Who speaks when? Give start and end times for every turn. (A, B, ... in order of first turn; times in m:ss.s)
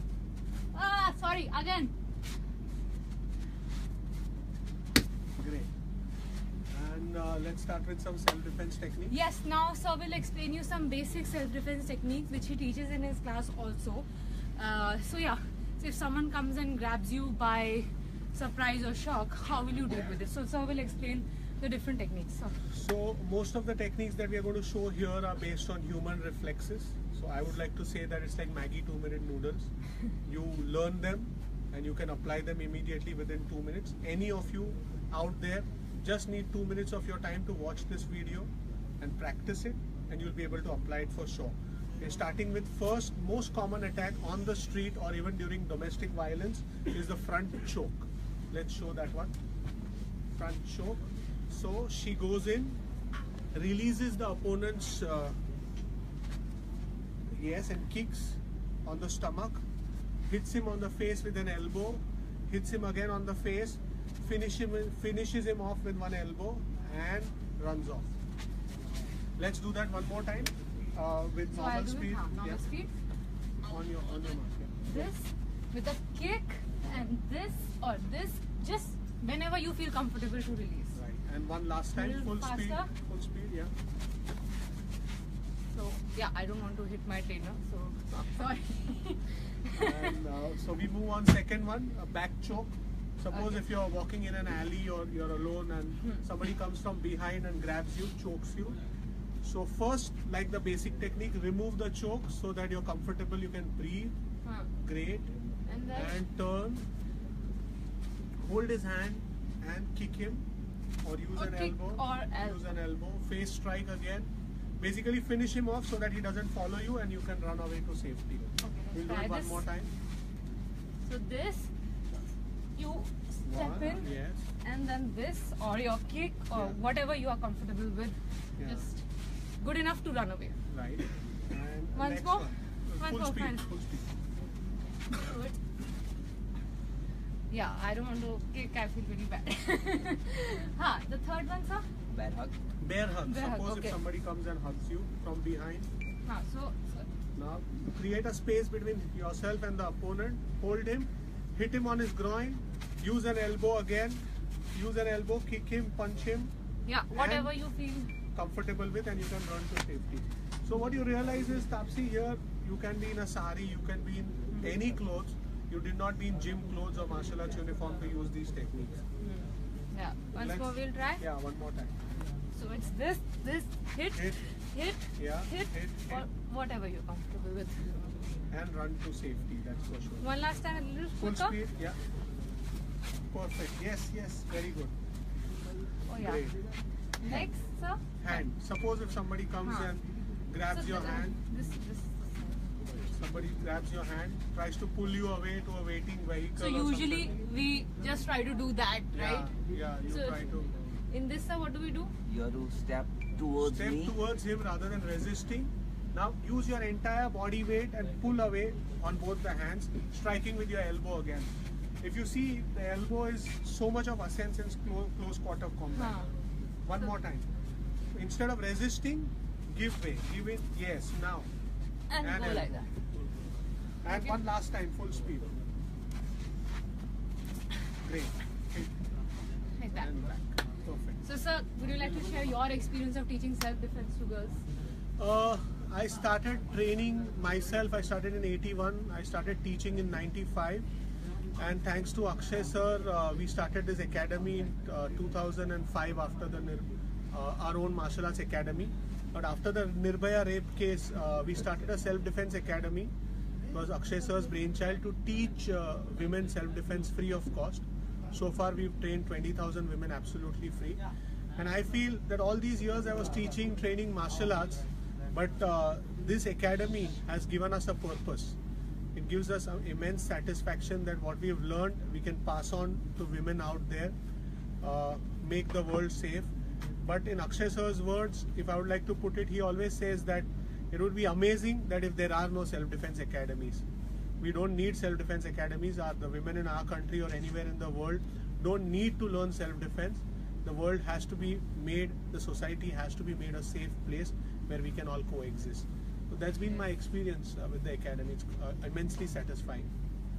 0:00.7-0:01.9 A
0:05.4-0:05.7 B
0:06.7-0:09.2 B
0:09.1-0:22.6 A
0:22.7-0:29.7 B
0:30.2-0:49.3 B
0:50.4-0:52.8 B
0:53.5-0:55.4 B
0:57.3-0:59.6 B
1:00.3-1:08.1 B
1:09.4-1:12.6 B
1:11.5-1:12.9 A
1:13.6-1:15.0 B
1:14.8-1:21.0 A
1:20.9-1:23.7 B
1:21.9-1:22.9 A
1:25.7-1:30.1 A
1:29.7-1:38.8 B
1:39.4-1:44.1 B
1:44.8-1:45.3 B
1:45.7-1:46.2 A
1:45.9-1:46.8 B
1:48.4-1:50.4 B
1:51.0-1:59.9 B
1:51.3-1:52.6 A
1:58.6-1:59.6 A
2:01.0-2:01.7 A
2:02.8-2:04.1 A
2:03.4-2:04.4 B
2:04.6-2:09.0 A
2:06.5-2:06.8 B
2:08.6-2:08.9 B
2:09.6-2:10.6 A
2:10.7-2:14.1 B
2:11.9-2:13.7 A
2:15.1-2:15.6 A
2:17.5-2:21.9 A
2:22.1-2:22.5 C
2:22.8-2:25.9 B
2:23.3-2:24.0 A
2:26.2-2:27.1 A
2:27.4-2:34.2 B
2:34.7-2:36.5 B
2:36.9-2:38.1 A
2:37.1-2:37.5 B
2:38.3-2:49.0 B
2:49.2-2:51.2 A
2:50.3-2:51.9 B
2:52.5-2:58.0 A
2:54.1-2:54.4 B
2:55.2-2:56.2 B
2:58.5-3:00.3 B
3:00.2-3:01.6 A
3:01.2-3:02.0 B
3:03.3-3:04.9 B
3:06.1-3:06.4 A
3:06.2-3:06.6 B
3:07.2-3:08.4 A
3:07.2-3:07.5 B
3:08.2-3:11.4 B
3:09.6-3:09.9 A
3:10.7-3:12.6 A
3:13.1-3:17.3 B
3:16.6-3:19.5 A
3:19.1-3:20.7 B
3:20.1-3:20.6 A
3:21.1-3:22.1 A
3:22.2-3:24.2 C
3:23.6-3:36.2 B
3:35.9-3:36.3 A
3:36.8-3:37.5 B
3:38.1-3:41.5 B
3:42.1-3:42.9 A
3:42.2-3:42.8 B
3:44.0-3:45.5 B
3:44.1-3:44.3 A
3:48.0-3:48.9 B
3:49.8-3:50.2 A
3:50.0-3:51.2 B
3:51.2-3:54.6 A
3:55.2-4:00.8 B
4:01.6-4:13.1 B
4:13.7-4:21.0 B
4:21.6-4:28.6 B
4:29.1-4:34.1 B
4:34.8-4:36.5 B
4:37.0-4:43.8 B
4:44.4-4:59.9 B